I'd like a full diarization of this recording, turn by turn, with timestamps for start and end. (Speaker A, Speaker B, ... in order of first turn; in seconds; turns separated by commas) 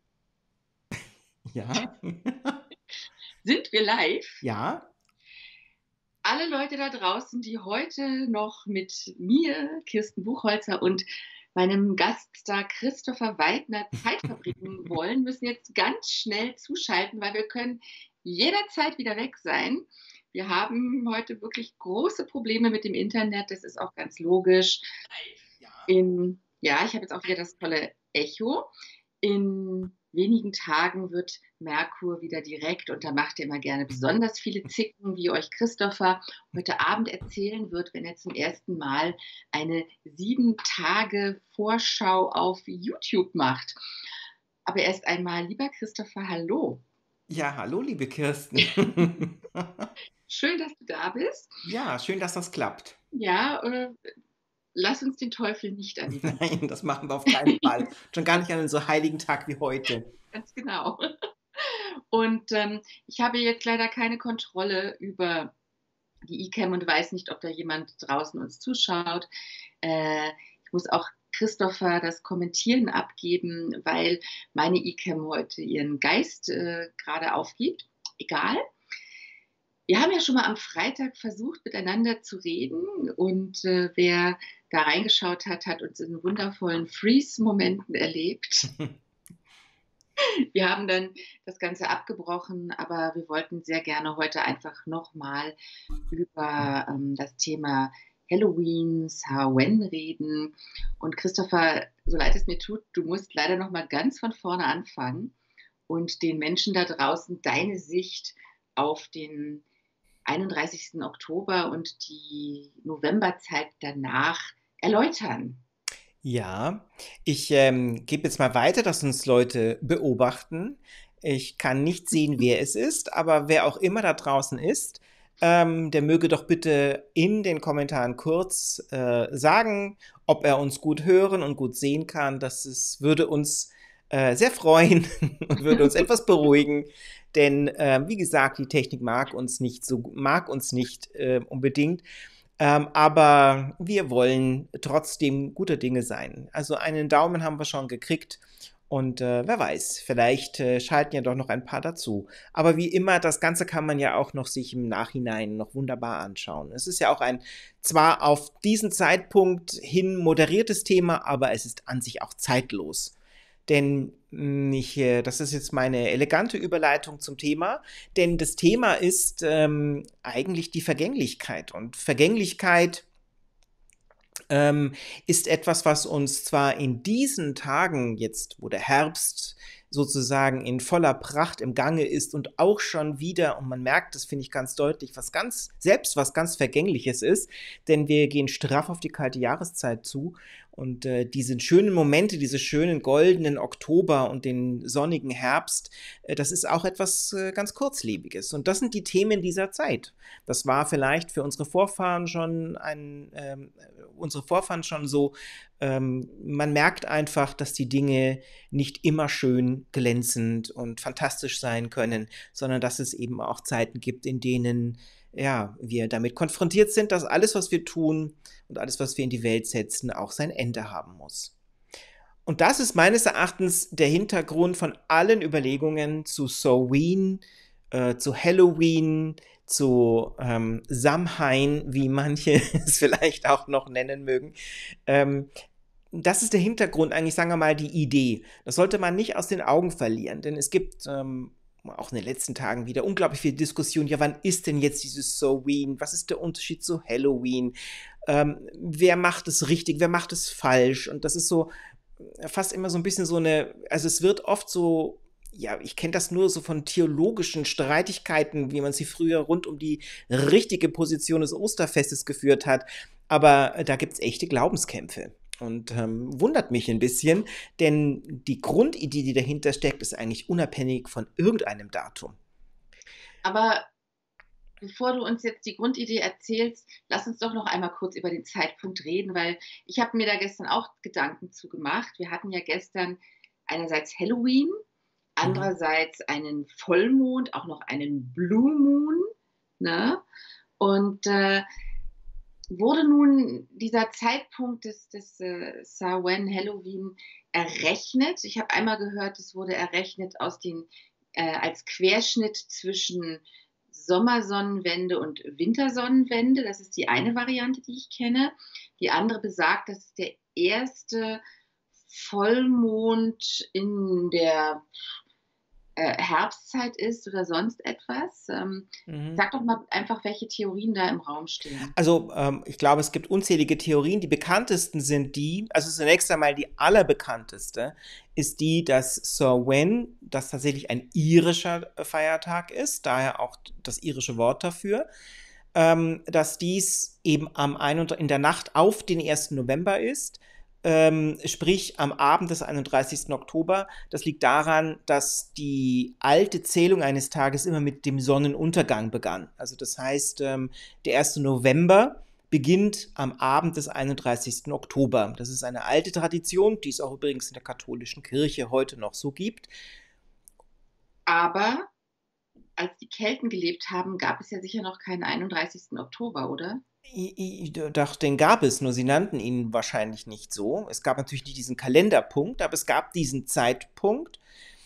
Speaker A: 1.5-2.6, Speaker B: 3.4-4.4, Speaker A: 4.4-4.9, Speaker B: 6.2-24.9, Speaker A: 25.6-25.9, Speaker B: 25.9-28.7, Speaker B: 29.2-43.8, Speaker B: 44.7-46.8, Speaker A: 47.3-49.9, Speaker B: 50.3-51.5, Speaker A: 51.7-53.0, Speaker B: 53.1-54.1, Speaker B: 54.8-56.4, Speaker A: 56.1-60.1, Speaker B: 60.3-65.5, Speaker B: 66.2-69.3, Speaker B: 69.8-78.6, Speaker B: 79.9-88.7, Speaker B: 90.2-95.6, Speaker B: 96.1-105.3, Speaker B: 105.9-109.6, Speaker B: 110.2-115.6, Speaker A: 116.2-142.0, Speaker A: 142.6-163.2, Speaker A: 163.7-173.1, Speaker A: 174.5-221.5, Speaker A: 222.5-234.6, Speaker A: 235.1-235.5, Speaker A: 236.1-247.8, Speaker A: 248.3-272.4, Speaker B: 273.4-273.9, Speaker B: 274.8-284.8, Speaker B: 285.4-289.3, Speaker A: 285.4-285.7, Speaker B: 289.8-290.2, Speaker B: 290.8-291.6, Speaker B: 292.7-311.4, Speaker B: 312.1-314.9, Speaker B: 316.0-321.9, Speaker A: 319.1-319.4, Speaker A: 321.9-335.1, Speaker A: 335.8-359.7, Speaker B: 361.3-361.9, Speaker B: 362.8-366.8, Speaker A: 367.1-374.4